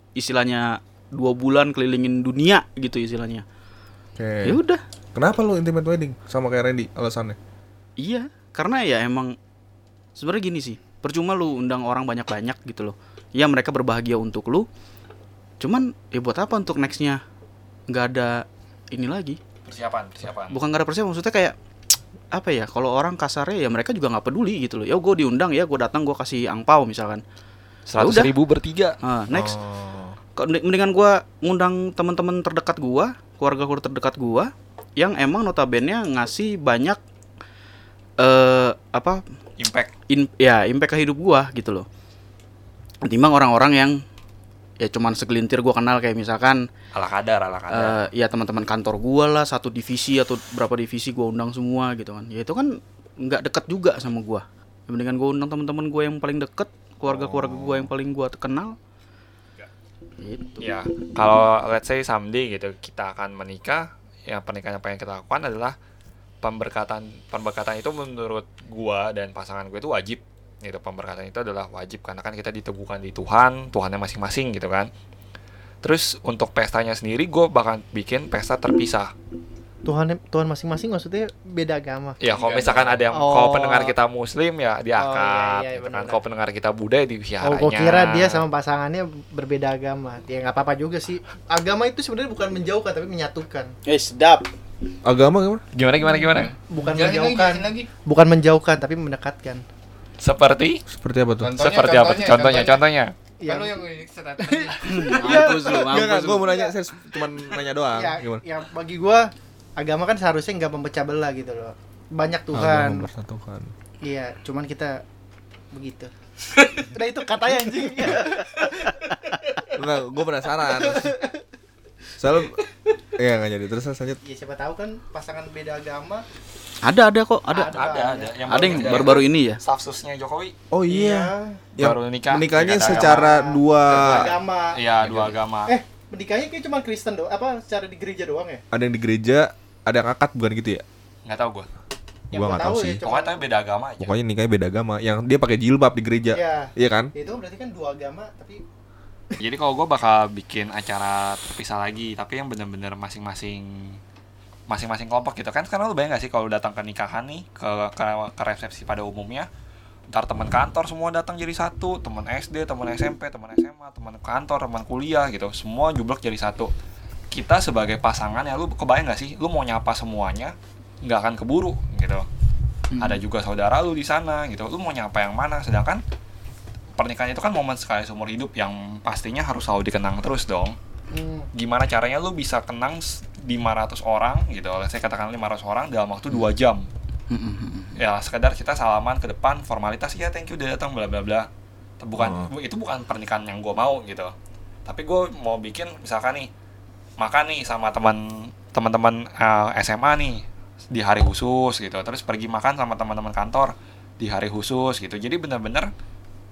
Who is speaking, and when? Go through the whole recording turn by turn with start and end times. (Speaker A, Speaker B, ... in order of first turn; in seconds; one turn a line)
Speaker A: 0.1-3.4
Speaker B: 4.2-4.6
Speaker A: 4.4-4.8
Speaker B: 5.1-7.4
Speaker A: 8.0-9.3
Speaker A: 10.1-14.7
Speaker A: 15.6-17.2
Speaker A: 17.9-19.4
Speaker C: 19.6-20.6
Speaker A: 20.5-21.6
Speaker A: 22.3-27.2
Speaker C: 27.9-29.0
Speaker A: 28.0-28.3
Speaker A: 29.0-29.6
Speaker B: 29.3-30.2
Speaker A: 30.4-37.0
Speaker A: 38.2-39.2
Speaker C: 39.6-39.9
Speaker A: 40.1-41.9
Speaker A: 43.0-44.0
Speaker A: 44.8-46.7
Speaker C: 46.9-48.0
Speaker A: 47.7-58.8
Speaker B: 57.0-57.9
Speaker A: 60.2-60.7
Speaker C: 60.6-65.8
Speaker C: 66.4-74.9
Speaker C: 75.8-79.1
Speaker D: 79.8-82.2
Speaker C: 82.2-88.4
Speaker D: 83.1-83.9
Speaker D: 85.0-86.2
Speaker D: 87.4-93.7
Speaker A: 93.8-94.5
Speaker B: 95.0-95.6
Speaker C: 95.7-96.5
Speaker D: 96.7-99.6
Speaker E: 97.1-97.6
Speaker C: 100.2-100.8
Speaker B: 100.9-101.6
Speaker E: 101.4-102.7
Speaker C: 101.5-103.1
Speaker D: 103.4-103.8
Speaker E: 103.5-104.5
Speaker D: 104.4-106.7
Speaker A: 104.8-106.5
Speaker B: 105.5-108.4
Speaker D: 107.9-113.1
Speaker B: 112.5-113.7
Speaker D: 114.0-115.0
Speaker D: 115.7-116.1
Speaker D: 116.8-119.7
Speaker B: 119.7-121.2
Speaker D: 120.7-121.3
Speaker B: 122.2-124.2
Speaker D: 124.2-126.2
Speaker A: 126.8-127.9
Speaker D: 127.5-129.1
Speaker C: 127.6-130.5
Speaker A: 128.4-129.6
Speaker B: 130.7-134.3
Speaker D: 130.9-131.6
Speaker C: 131.8-133.3
Speaker D: 132.8-134.8
Speaker C: 133.9-135.7
Speaker D: 135.7-138.6
Speaker B: 138.7-140.8
Speaker C: 141.2-141.7
Speaker B: 142.3-143.0
Speaker D: 142.3-143.4
Speaker C: 143.0-144.1
Speaker B: 144.0-147.1
Speaker D: 146.3-148.6
Speaker C: 149.4-154.0
Speaker C: 154.7-159.5
Speaker C: 160.1-166.7
Speaker C: 167.3-172.3
Speaker A: 172.9-173.2
Speaker C: 173.0-176.0
Speaker C: 176.9-180.8
Speaker D: 181.1-181.5
Speaker C: 181.5-186.8
Speaker A: 187.3-188.0
Speaker C: 187.9-191.5
Speaker C: 192.0-194.3
Speaker B: 192.2-192.5
Speaker C: 194.8-196.5
Speaker C: 197.2-205.9